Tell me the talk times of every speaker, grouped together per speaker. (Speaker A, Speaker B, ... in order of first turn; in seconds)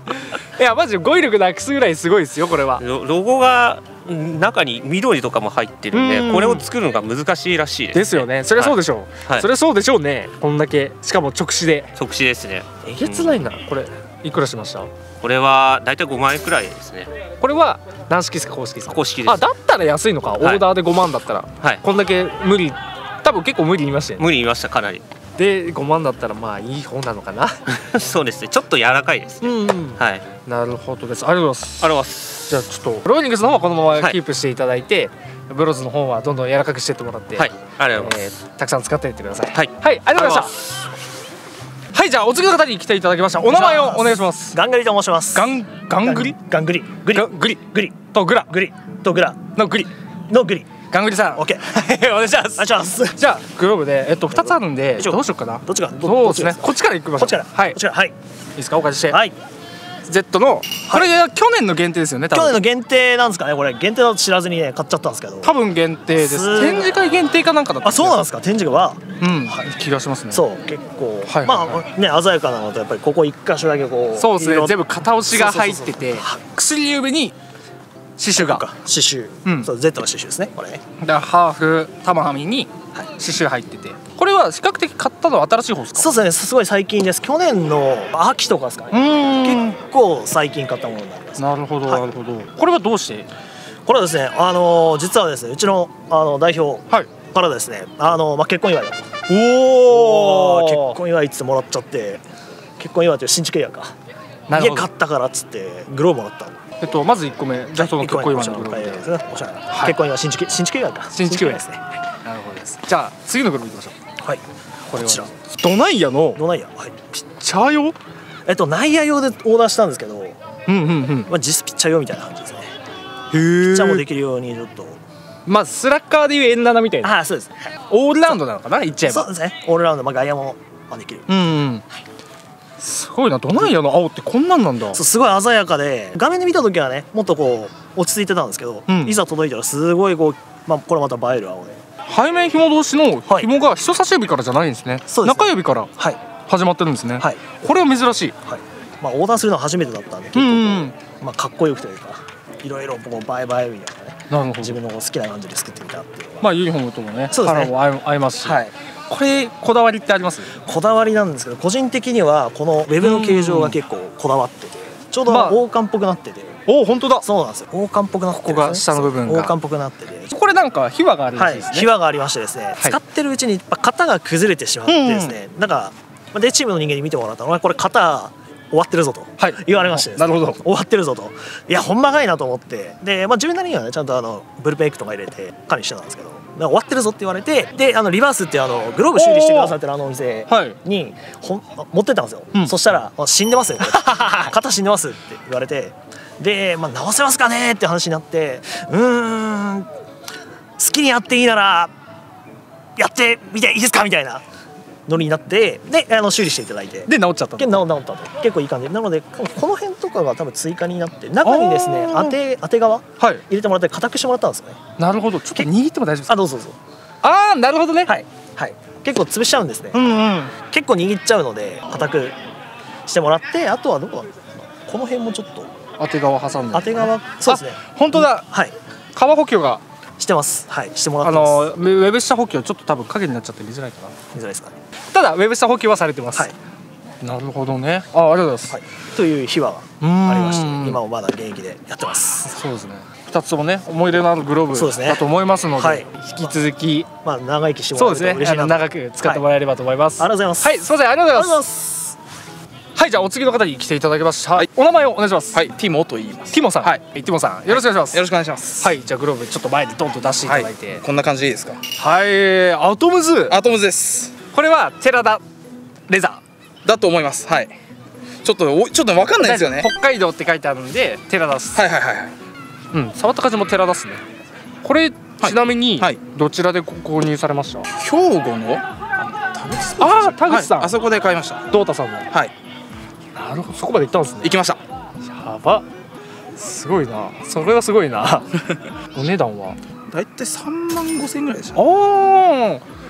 Speaker A: 0.3-2.8, 5.9-6.7, 7.9-11.9, 12.8-14.9, 17.4-24.3, 25.4-27.7, 29.4-31.9, 32.5-40.7, 41.9-44.6, 45.3-46.4, 47.1-48.5, 49.5-49.9, 50.9-57.8, 58.6-59.2, 60.0-62.6, 65.4-68.2, 69.2-70.5, 71.2-71.8, 74.2-77.3, 78.2-78.7, 79.5-79.7, 81.0-86.1, 88.9-89.8, 91.4-93.3, 99.3-101.0, 104.5-104.9, 106.8-109.1, 109.7-110.0, 111.1-111.6, 112.2-114.0, 114.9-116.4, 117.1-118.0, 120.7-121.3, 123.3-124.0, 125.5-127.2, 127.9-129.3, 131.3-131.8, 132.8-135.0, 138.9-139.2, 142.1-148.3, 150.3-150.9, 154.3-154.8, 156.4-160.5, 163.0-163.8, 165.3-165.6, 166.7-167.3, 168.3-169.5, 170.3-171.9, 174.9-175.4, 179.4-180.6, 189.2-189.8, 190.5-190.8, 207.1-207.8, 211.4-212.3, 215.0-216.4, 217.2-218.1, 219.9-220.5, 226.0-228.5, 229.2-229.8, 231.2-234.2, 235.1-236.5, 237.2-238.8, 240.0-241.0, 242.4-247.1, 247.9-251.6, 252.9-255.6, 256.5-258.2, 258.8-261.0, 261.9-263.6, 264.5-265.4, 266.1-266.4, 269.4-271.8, 272.9-274.2, 274.8-277.9, 280.0-280.9, 281.7-282.3, 283.4-284.5, 285.2-285.9, 286.6-288.5, 289.1-289.8, 291.7-292.9
Speaker B: 2.8-9.5, 12.0-13.4, 15.2-17.1, 18.9-19.4, 20.4-20.7, 24.2-25.0, 27.7-30.2, 31.8-32.6, 37.4-38.3, 39.5-40.5
Speaker C: 43.4-48.0, 48.5-49.4, 50.3-50.7, 51.4-51.6, 52.6-53.2, 54.3-58.1, 59.1-59.4, 62.3-65.5, 66.1-67.0, 67.8-69.7, 70.3-76.4, 78.3-80.8, 86.0-92.1, 93.9-99.1, 99.9-102.2, 102.8-104.0, 104.5-106.6, 107.8-111.8, 114.2-115.3, 116.3-117.0, 118.5-120.4, 121.3-122.7, 123.6-125.0, 127.0-127.7, 129.0-131.3, 134.9-141.8, 145.1-146.2, 148.4-156.5, 157.3-157.8, 158.4-158.7, 160.5-166.6, 167.2-170.3, 171.3-199.9, 200.8-201.9, 203.0-204.4, 205.1-214.8, 216.3-216.8, 218.1-220.1, 220.7-222.4, 223.1-225.7, 226.7-228.8, 230.2-231.7, 234.3-234.8, 238.7-242.5, 244.7-245.2, 245.8-246.6, 247.2-249.4, 250.2-252.1
Speaker D: 255.5-257.0, 257.7-258.9, 260.4-261.8, 263.5-264.3, 266.8-267.8, 268.4-269.9, 271.7-272.4, 275.4-276.2, 277.9-281.6, 284.4-284.8, 290.1-291.8